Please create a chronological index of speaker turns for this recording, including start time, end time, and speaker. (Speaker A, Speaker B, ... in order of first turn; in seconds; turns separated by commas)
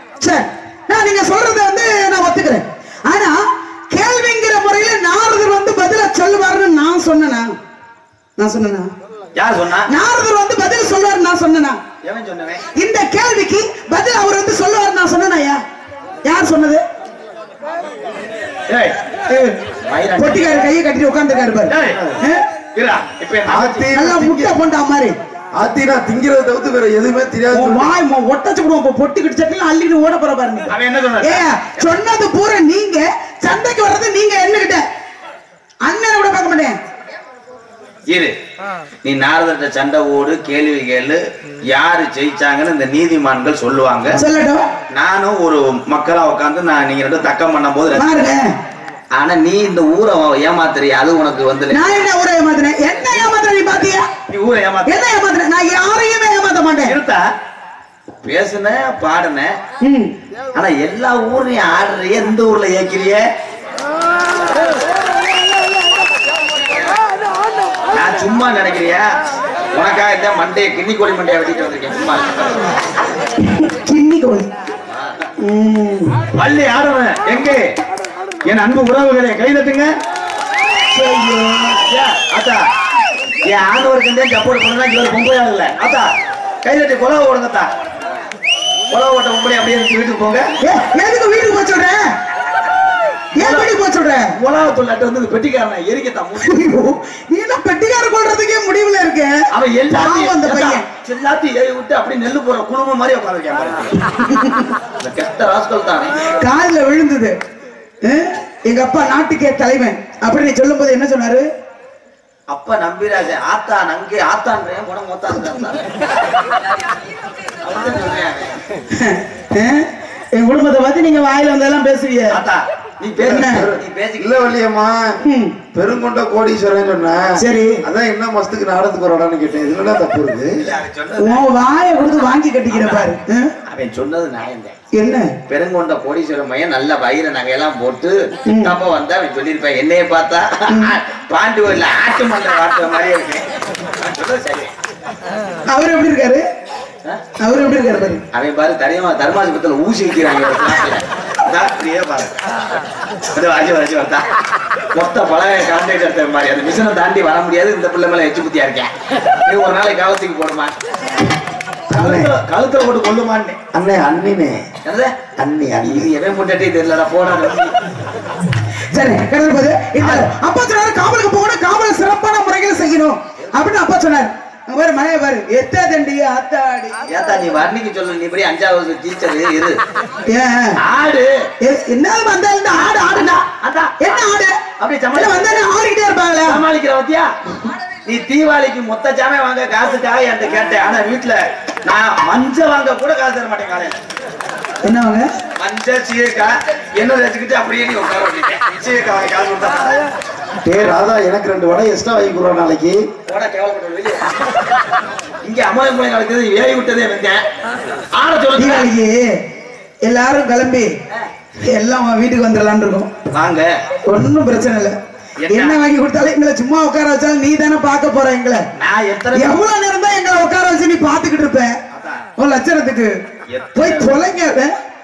Speaker A: 0.2-3.4, Speaker A: 3.9-7.5, Speaker A: 8.4-8.9, Speaker B: 9.4-9.9, Speaker A: 9.9-11.8, Speaker B: 12.0-12.6, Speaker A: 12.8-15.6, Speaker A: 16.2-16.8, Speaker B: 18.7-19.0, Speaker A: 19.3-19.6, Speaker B: 19.9-20.6, Speaker A: 20.2-22.4, Speaker B: 21.7-22.0, Speaker C: 21.9-22.2, Speaker B: 22.8-23.9, Speaker C: 23.5-24.5, Speaker A: 23.9-25.1, Speaker C: 25.6-27.9, Speaker A: 27.5-34.8, Speaker B: 30.7-31.9, Speaker A: 35.8-36.8, Speaker B: 38.1-38.3, Speaker B: 39.0-44.2, Speaker A: 44.1-44.7, Speaker B: 44.9-48.2, Speaker A: 47.9-48.4, Speaker B: 49.1-51.9, Speaker A: 51.7-54.1, Speaker B: 54.3-55.1, Speaker A: 54.9-56.9, Speaker B: 56.9-57.2, Speaker B: 58.2-59.5, Speaker A: 59.8-60.1, Speaker B: 60.5-63.2, Speaker B: 67.9-69.1, Speaker B: 69.7-72.5, Speaker A: 73.5-74.5, Speaker A: 75.4-76.2, Speaker B: 76.3-77.6, Speaker B: 78.5-79.9, Speaker A: 80.9-81.8, Speaker B: 81.9-82.6, Speaker B: 83.5-86.1, Speaker B: 86.6-87.7, Speaker B: 88.9-90.5, Speaker A: 90.6-92.0, Speaker A: 93.4-94.3, Speaker B: 93.4-93.7, Speaker B: 94.4-96.7, Speaker A: 96.4-99.4, Speaker B: 99.5-104.0, Speaker A: 99.9-100.8, Speaker A: 104.3-104.6, Speaker B: 105.0-106.3, Speaker A: 106.4-107.4, Speaker A: 108.0-111.5, Speaker B: 112.5-115.9, Speaker B: 117.6-118.6, Speaker A: 118.9-122.3, Speaker B: 122.3-124.3, Speaker A: 123.2-123.6, Speaker C: 123.2-125.2, Speaker A: 125.2-125.5, Speaker C: 125.7-130.6, Speaker A: 127.4-127.8, Speaker B: 130.6-131.5, Speaker A: 131.2-133.5, Speaker B: 132.7-133.1, Speaker B: 133.7-134.8, Speaker A: 134.9-135.3, Speaker B: 135.5-143.5, Speaker A: 138.5-138.8, Speaker A: 140.7-140.9, Speaker B: 144.1-144.7, Speaker A: 145.7-146.4, Speaker A: 147.4-148.2, Speaker B: 148.3-152.4, Speaker B: 153.3-154.2, Speaker B: 154.9-158.9, Speaker B: 159.5-160.7, Speaker C: 161.9-162.3, Speaker B: 161.9-163.6, Speaker C: 163.7-164.7, Speaker B: 164.8-167.8, Speaker C: 165.4-166.1, Speaker A: 168.9-177.1, Speaker B: 170.0-170.3, Speaker B: 177.1-179.8, Speaker A: 180.3-180.8, Speaker B: 180.8-181.3, Speaker A: 181.6-184.6, Speaker B: 183.6-184.2, Speaker B: 184.8-185.6, Speaker A: 185.1-186.6, Speaker B: 186.5-187.3, Speaker B: 188.1-193.9, Speaker A: 194.8-195.3, Speaker B: 195.6-200.0, Speaker C: 200.6-203.1, Speaker B: 203.3-204.3, Speaker B: 205.4-207.4, Speaker B: 208.1-208.9, Speaker A: 208.6-209.4, Speaker A: 210.0-210.9, Speaker A: 211.6-213.1, Speaker B: 213.3-213.7, Speaker A: 214.1-215.0, Speaker B: 215.4-215.8, Speaker A: 215.5-218.6, Speaker B: 218.8-219.6, Speaker A: 219.3-221.7, Speaker B: 221.9-222.2, Speaker A: 222.4-223.1, Speaker B: 223.5-224.2, Speaker A: 223.8-224.7